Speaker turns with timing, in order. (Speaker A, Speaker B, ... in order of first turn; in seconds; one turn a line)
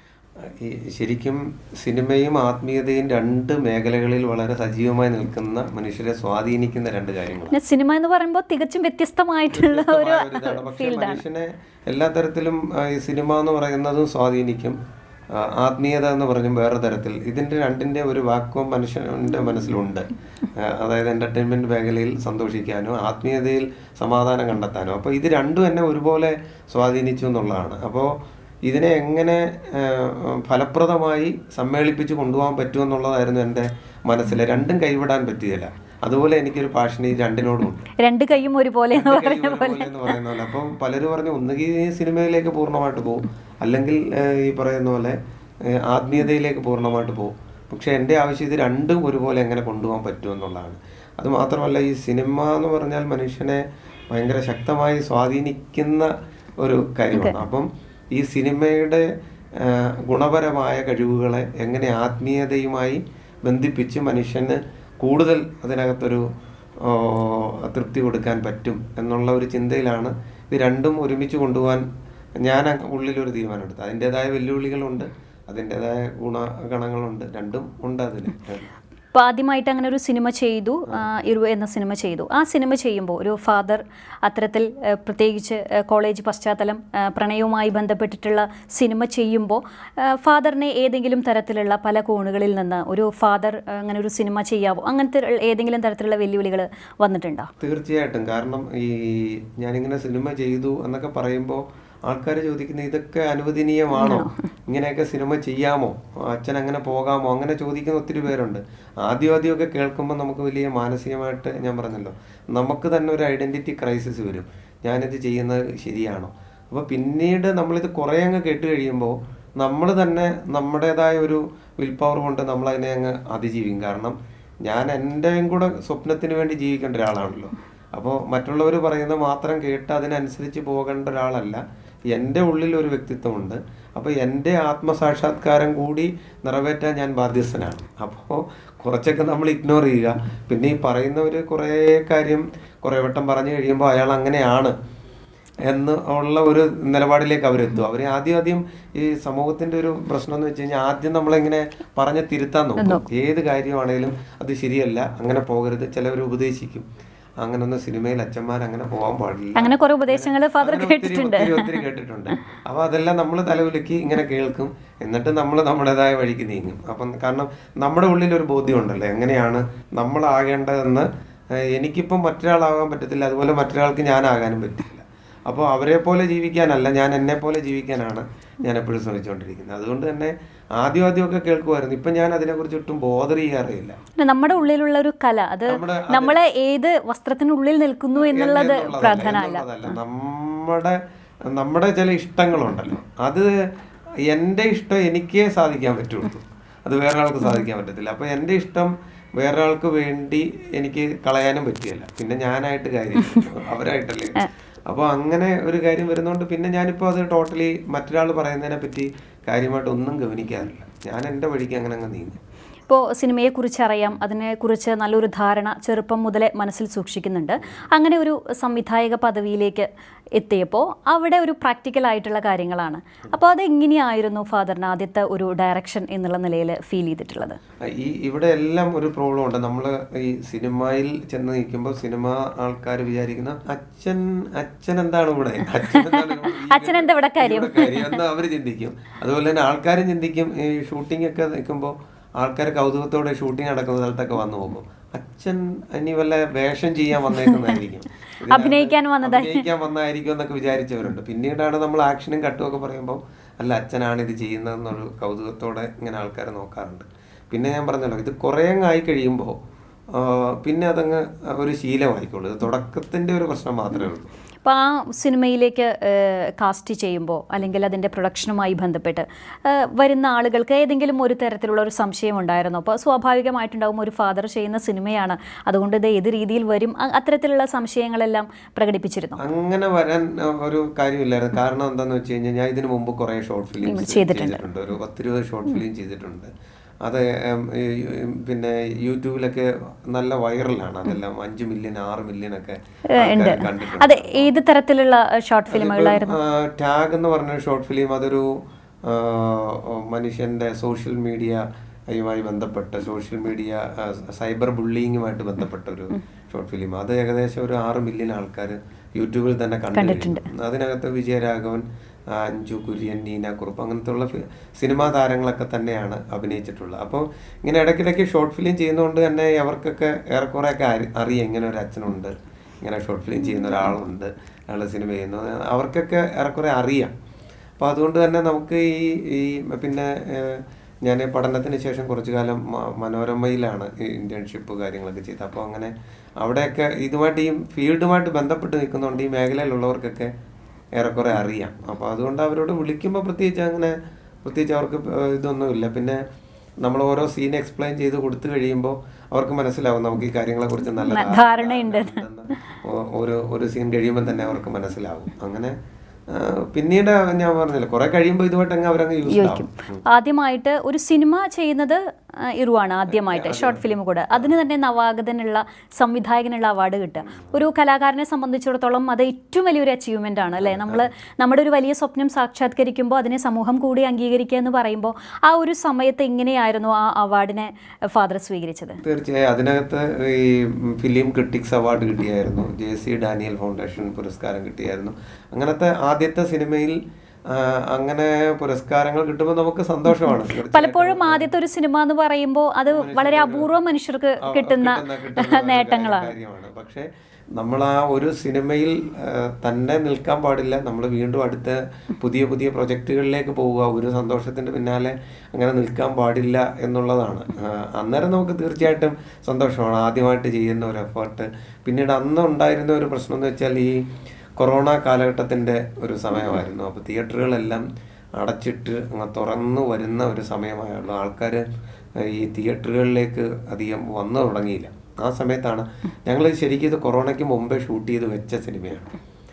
Speaker A: 0.6-7.6
Speaker B: 7.5-11.2
Speaker A: 9.5-14.8
Speaker A: 15.3-28.1
Speaker A: 28.7-37.9
Speaker B: 38.0-40.1
Speaker A: 38.9-66.2
Speaker B: 57.1-57.4
Speaker A: 66.8-71.8
Speaker A: 72.4-78.7
Speaker B: 79.2-97.5
Speaker A: 97.6-144.8
Speaker B: 104.0-104.3
Speaker A: 145.7-156.9
Speaker B: 152.8-153.1
Speaker A: 157.4-184.0
Speaker B: 159.6-161.8
Speaker B: 184.2-189.7
Speaker A: 185.7-186.4
Speaker A: 188.2-193.5
Speaker A: 194.3-212.4
Speaker B: 212.9-227.6
Speaker A: 227.8-259.6
Speaker B: 235.9-238.2
Speaker B: 247.4-247.7
Speaker B: 248.5-249.7
Speaker A: 260.1-264.3
Speaker B: 264.6-279.4
Speaker A: 279.4-286.5
Speaker B: 283.9-284.6
Speaker A: 287.1-294.5
Speaker B: 293.1-296.4
Speaker A: 295.7-298.5
Speaker A: 299.1-327.1
Speaker B: 309.9-310.5
Speaker A: 327.8-340.3
Speaker A: 340.9-346.2
Speaker A: 346.8-355.8
Speaker B: 351.0-352.2
Speaker A: 356.3-360.0
Speaker B: 359.3-379.0
Speaker A: 363.1-363.8
Speaker A: 367.3-367.6
Speaker A: 370.6-371.1
Speaker A: 379.0-391.5
Speaker B: 390.7-396.3
Speaker A: 392.9-393.7
Speaker A: 394.4-414.1
Speaker A: 414.6-421.6
Speaker A: 422.2-429.1